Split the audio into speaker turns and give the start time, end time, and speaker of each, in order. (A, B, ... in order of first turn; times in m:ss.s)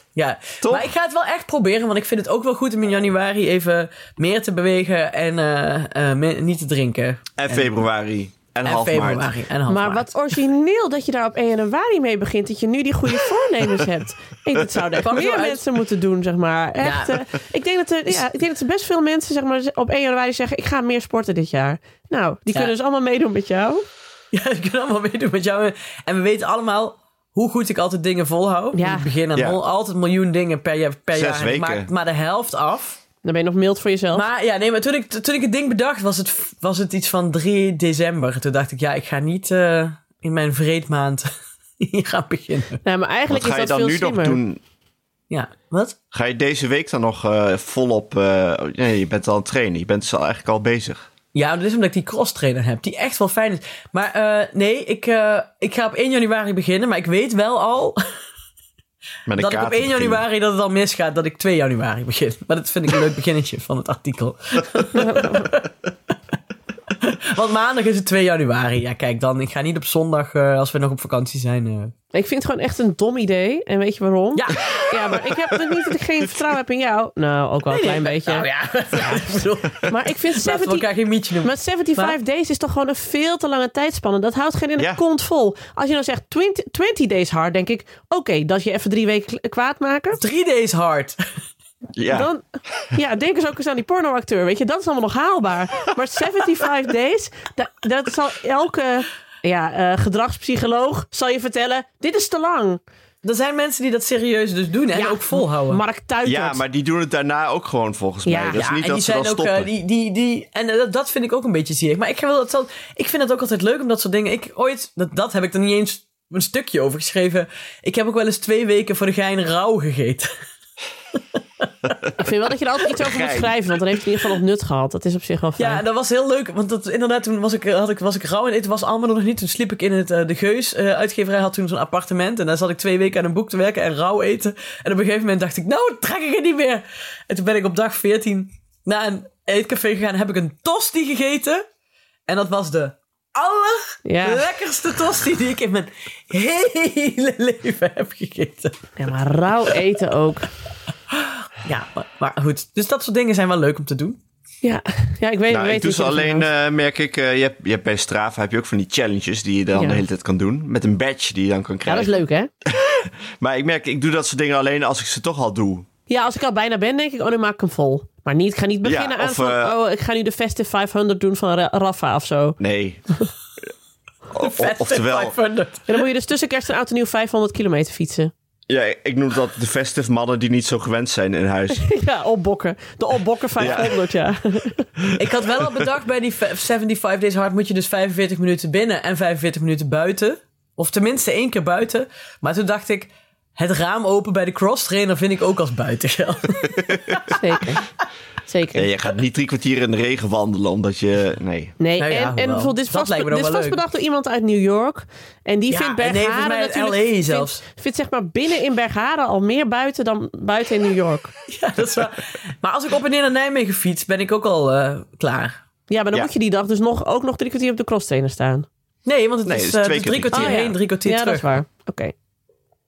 0:00.2-0:07.8 A
0:00.6-0:00.9 B
0:07.4-0:09.3 B
0:08.6-0:10.1 A
0:09.7-0:23.8 C
0:15.0-0:15.6 A
0:16.8-0:17.2 A
0:24.3-0:33.0 A
0:28.7-0:29.1 C
0:31.1-0:31.9 B
0:33.2-0:34.2 C
0:34.1-0:42.8 A
0:42.8-0:44.4 C
0:43.3-0:44.6 B
0:45.3-0:46.0 A
0:46.1-0:51.0 B
0:51.3-0:58.0 A
0:59.3-1:00.2 B
0:59.4-1:05.7 A
1:05.0-1:05.4 C
1:07.0-1:11.9 A
1:12.1-1:18.5 C
1:14.3-1:15.3 A
1:17.7-1:22.2 A
1:19.9-1:20.9 C
1:21.4-1:30.2 C
1:30.2-1:31.2 A
1:32.0-1:32.3 B
1:32.1-1:42.8 C
1:43.2-1:45.8 A
1:44.9-1:46.6 C
1:46.2-1:49.7 B
1:48.2-1:48.6 C
1:48.5-2:00.3 A
2:02.2-2:05.8 C
2:02.9-2:03.6 B
2:05.6-2:21.6 A
2:22.3-2:28.9 A
2:24.0-2:24.4 C
2:29.0-2:30.5 C
2:31.6-2:34.2 A
2:34.6-2:36.4 C
2:35.5-2:42.1 B
2:39.7-2:40.0 C
2:41.8-2:42.5 C
2:42.6-2:45.9 B
2:46.1-2:52.6 C
2:48.8-2:49.7 B
2:52.6-2:53.0 B
2:54.3-2:55.3 B
2:54.4-2:56.0 A
2:55.9-2:58.3 C
2:58.7-3:01.9 B
3:01.7-3:04.9 C
3:03.6-3:04.0 B
3:05.2-3:17.4 A
3:17.3-3:17.8 C
3:18.5-3:18.9 C
3:18.7-3:21.8 B
3:21.8-3:31.3 C
3:22.0-3:23.8 A
3:25.7-3:27.6 A
3:31.5-3:35.6 A
3:35.9-3:38.7 C
3:39.0-3:41.5 A
3:39.4-3:40.6 B
3:40.3-3:42.1 C